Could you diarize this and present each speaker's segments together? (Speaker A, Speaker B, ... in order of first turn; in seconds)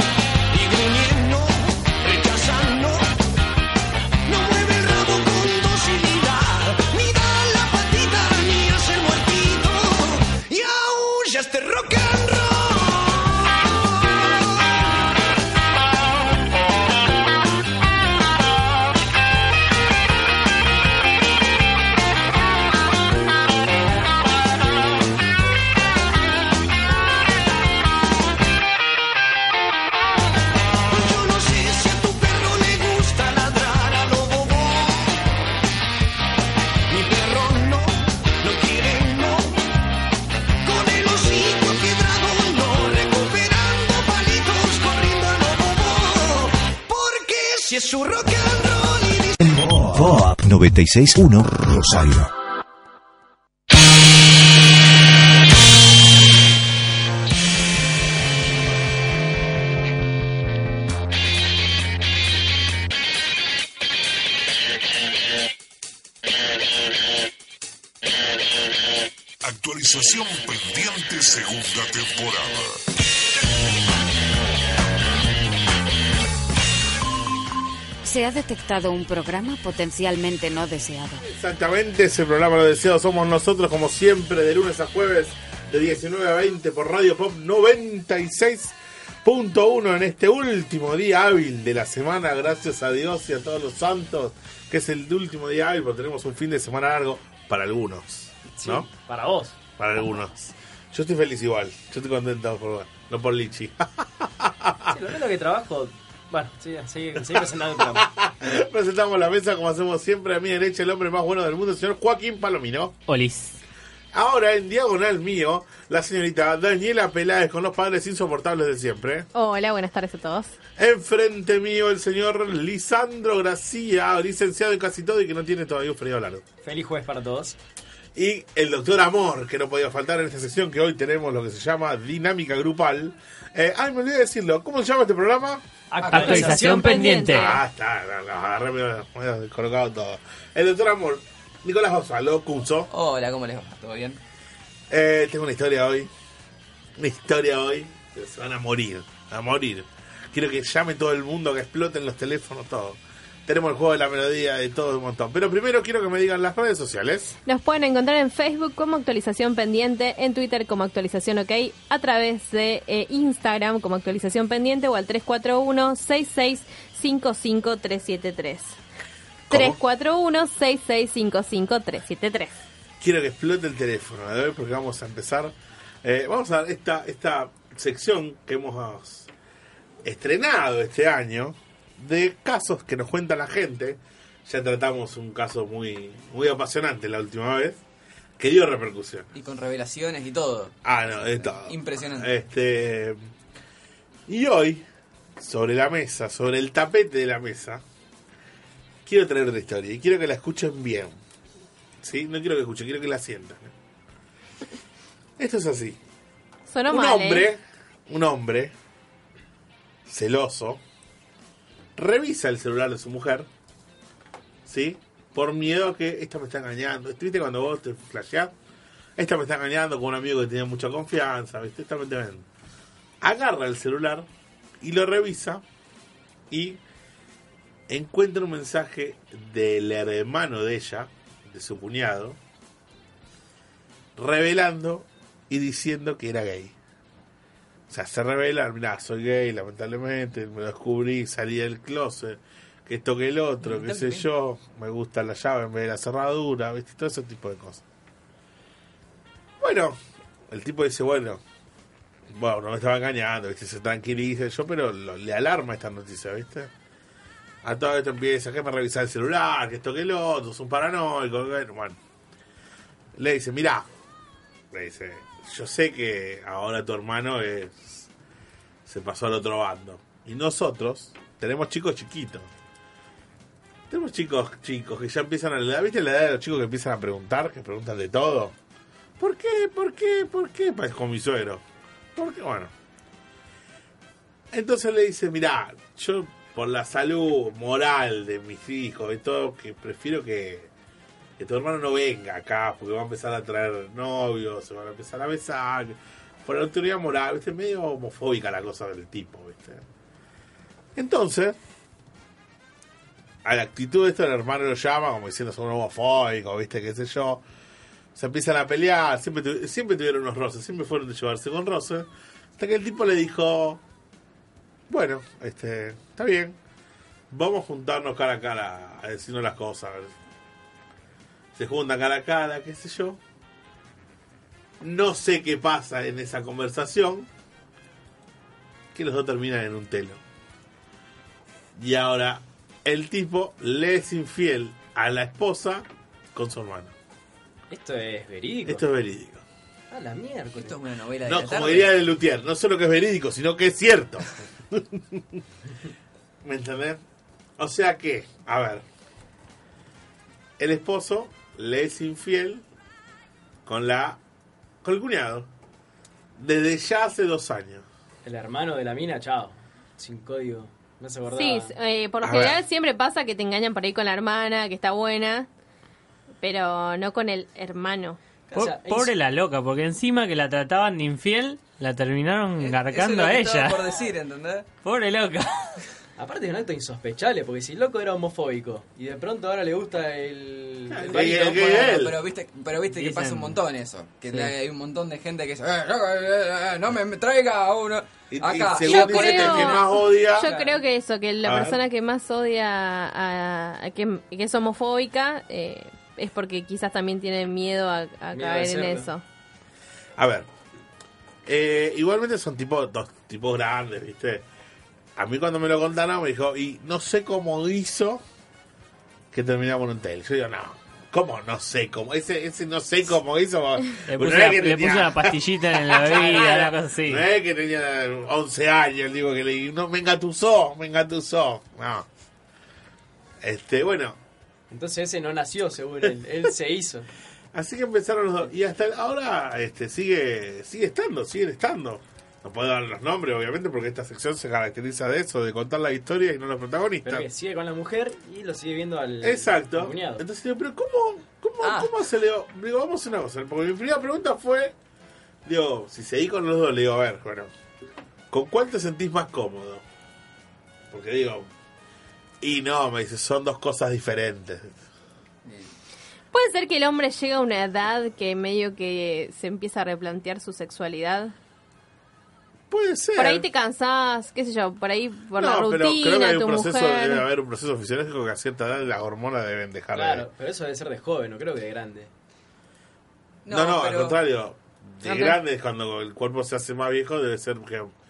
Speaker A: 0.5-3.2, 4.3-14.4, 30.9-35.3, 36.9-39.6, 40.6-49.5
Speaker B: 49.4-52.3
Speaker C: 69.4-72.8
Speaker D: 78.0-81.2
Speaker E: 81.2-98.9, 99.8-104.9, 107.2-112.9, 114.1-119.3, 120.8-126.4, 128.2-135.6, 137.3-142.9, 144.9-146.1, 147.0-157.4, 169.5-169.8, 173.0-179.3, 180.0-187.8, 188.4-189.3, 190.8-193.2, 194.3-194.8, 195.4-197.8, 199.1-201.2, 202.0-203.7, 205.4-206.0, 206.9-208.7, 210.1-210.8, 212.0-213.5, 214.7-218.5, 219.2-222.5, 223.2-224.3, 224.8-225.6, 226.5-226.8, 227.9-232.4, 234.2-236.8, 237.9-247.8, 249.6-251.4, 252.3-256.7, 257.6-262.0, 263.1-263.9, 264.7-268.1, 268.9-272.5, 273.9-278.5, 279.2-281.6, 282.2-282.7, 284.5-290.7, 291.4-299.8, 301.0-301.6, 303.4-307.4, 308.1-312.1, 312.6-313.8, 314.9-316.6, 317.3-320.1, 321.6-323.2, 324.8-327.3, 328.9-330.2, 331.8-336.9, 338.6-339.4, 341.2-345.4, 346.4-347.0, 347.6-348.8, 350.6-352.6, 353.7-354.2, 354.8-355.5, 356.4-357.9, 362.2-362.6, 380.9-382.2, 388.3-390.5, 391.4-391.8, 400.2-400.5, 401.4-404.4, 405.2-408.2, 409.3-422.1, 423.4-424.2, 427.5-437.3, 439.2-444.7, 445.4-447.5, 448.3-449.8, 450.9-451.5, 452.4-454.8, 462.7-463.5, 465.4-470.3, 473.5-477.9
Speaker F: 98.5-99.6, 104.9-108.1, 126.6-127.6, 135.9-137.2, 337.7-338.8, 339.9-340.8, 358.2-361.7, 368.5-369.1, 376.2-382.0, 398.3-399.1, 424.7-427.1, 437.0-440.2, 469.9-472.1
Speaker G: 113.1-113.6, 136.1-137.6, 368.5-373.9, 374.8-375.9, 382.9-383.6, 414.1-417.2
Speaker H: 119.3-120.5, 136.4-137.6, 157.5-168.8, 169.5-172.5, 206.7-207.5, 361.3-365.5, 366.4-368.2, 388.8-399.2, 456.3-461.3, 463.1-467.3, 475.0-475.4
Speaker I: 136.0-136.5, 142.9-144.2, 189.3-192.3, 243.6-244.3, 340.6-341.9, 372.6-374.7, 381.7-390.8, 441.6-441.9, 473.4-474.2